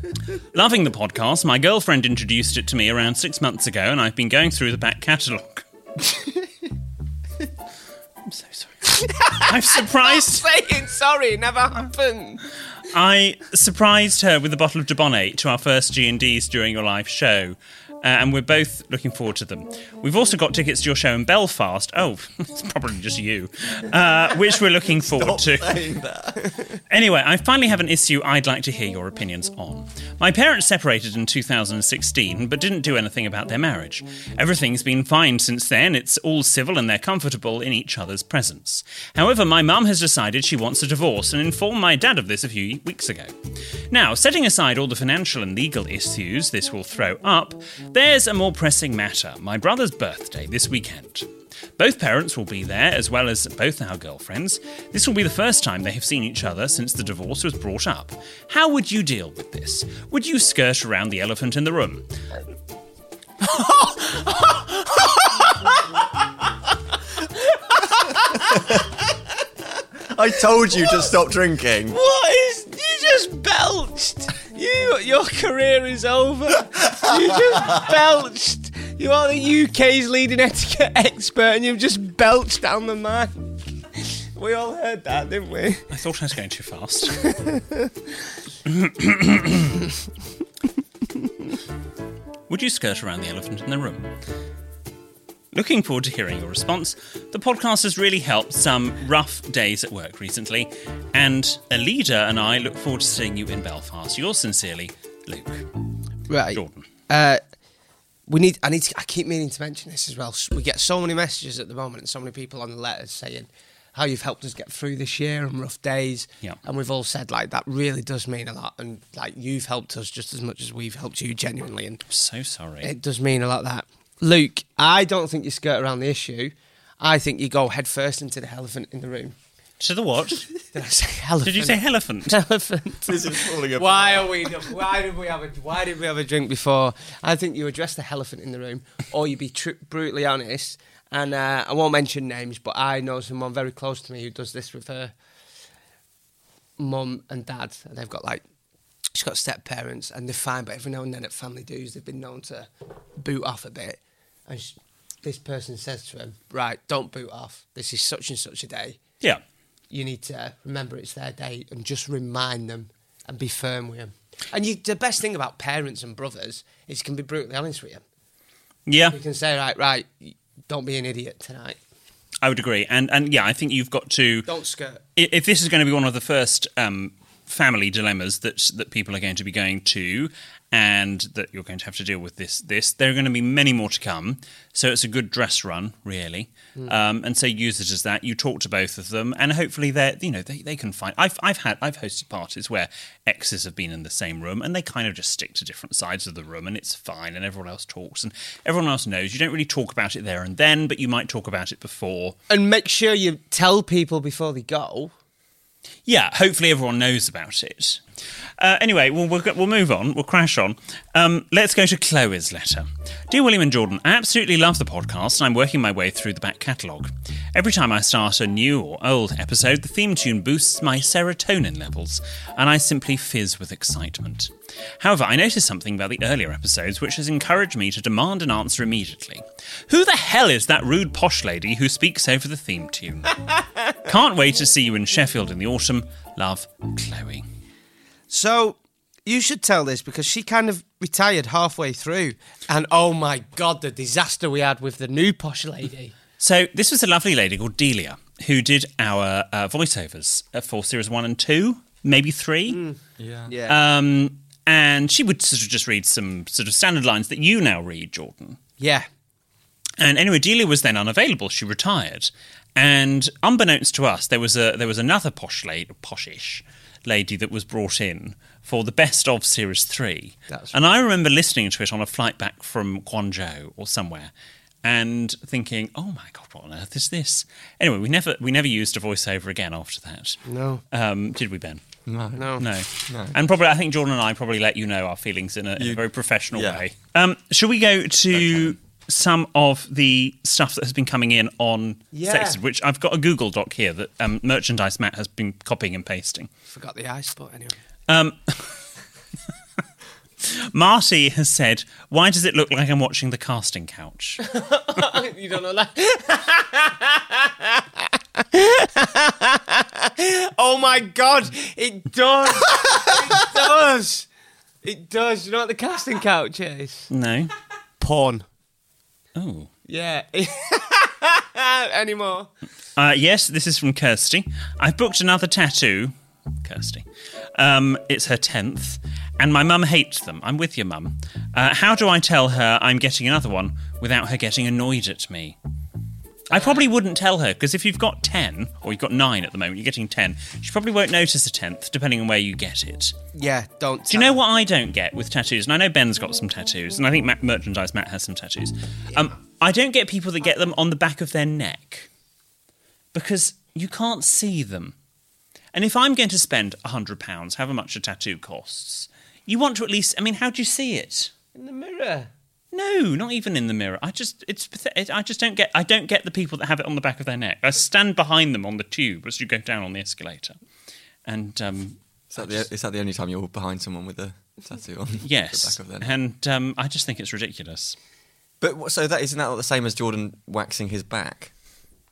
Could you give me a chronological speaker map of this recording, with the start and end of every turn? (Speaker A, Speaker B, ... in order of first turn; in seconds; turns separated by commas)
Speaker A: 0.5-5.7, Speaker A: 8.3-10.4, Speaker B: 9.0-12.4, Speaker A: 12.9-25.8, Speaker C: 25.0-26.5, Speaker A: 26.9-43.3, Speaker A: 43.9-62.1, Speaker B: 63.5-65.8, Speaker C: 70.1-72.0, Speaker B: 71.9-85.8, Speaker A: 85.9-87.2, Speaker B: 87.2-87.9, Speaker A: 88.7-89.8, Speaker A: 92.5-94.1, Speaker A: 95.5-105.7, Speaker B: 106.3-107.4, Speaker A: 106.5-106.9, Speaker B: 108.3-122.0, Speaker A: 122.1-122.9, Speaker B: 122.8-129.3, Speaker A: 129.8-130.5, Speaker B: 130.7-145.1, Speaker A: 131.4-132.4, Speaker C: 133.1-134.5, Speaker B: 146.8-148.4, Speaker B: 149.1-159.0, Speaker B: 159.9-168.0, Speaker A: 168.9-169.2, Speaker B: 169.1-171.8, Speaker A: 172.4-174.5, Speaker B: 174.5-175.0, Speaker A: 175.2-202.4, Speaker B: 202.5-205.1, Speaker A: 206.1-208.0, Speaker A: 208.6-233.4, Speaker A: 234.1-237.4, Speaker B: 238.3-246.2, Speaker A: 246.4-252.8, Speaker B: 252.7-253.8, Speaker C: 253.2-253.5, Speaker A: 253.7-258.6, Speaker B: 258.8-259.1, Speaker A: 260.0-274.3, Speaker A: 274.8-280.4, Speaker B: 280.5-280.8, Speaker A: 280.9-281.8, Speaker C: 282.1-282.5, Speaker B: 282.4-282.7, Speaker A: 282.6-296.5, Speaker C: 283.1-283.4, Speaker C: 285.8-286.8, Speaker B: 292.1-292.6, Speaker B: 296.7-297.8, Speaker A: 298.1-298.6, Speaker A: 300.4-304.4, Speaker B: 304.4-314.3, Speaker B: 314.8-317.1, Speaker A: 317.1-317.5, Speaker B: 318.0-318.4, Speaker A: 319.4-319.7, Speaker B: 319.9-322.5, Speaker A: 323.0-335.6, Speaker A: 336.5-343.1, Speaker B: 336.5-336.8, Speaker B: 343.4-344.4, Speaker A: 344.1-352.1, Speaker A: 353.1-354.9, Speaker A: 355.7-361.3, Speaker B: 361.6-362.3, Speaker A: 362.7-370.6, Speaker A: 371.3-372.6, Speaker C: 372.3-376.2, Speaker A: 375.2-378.0, Speaker C: 378.6-381.5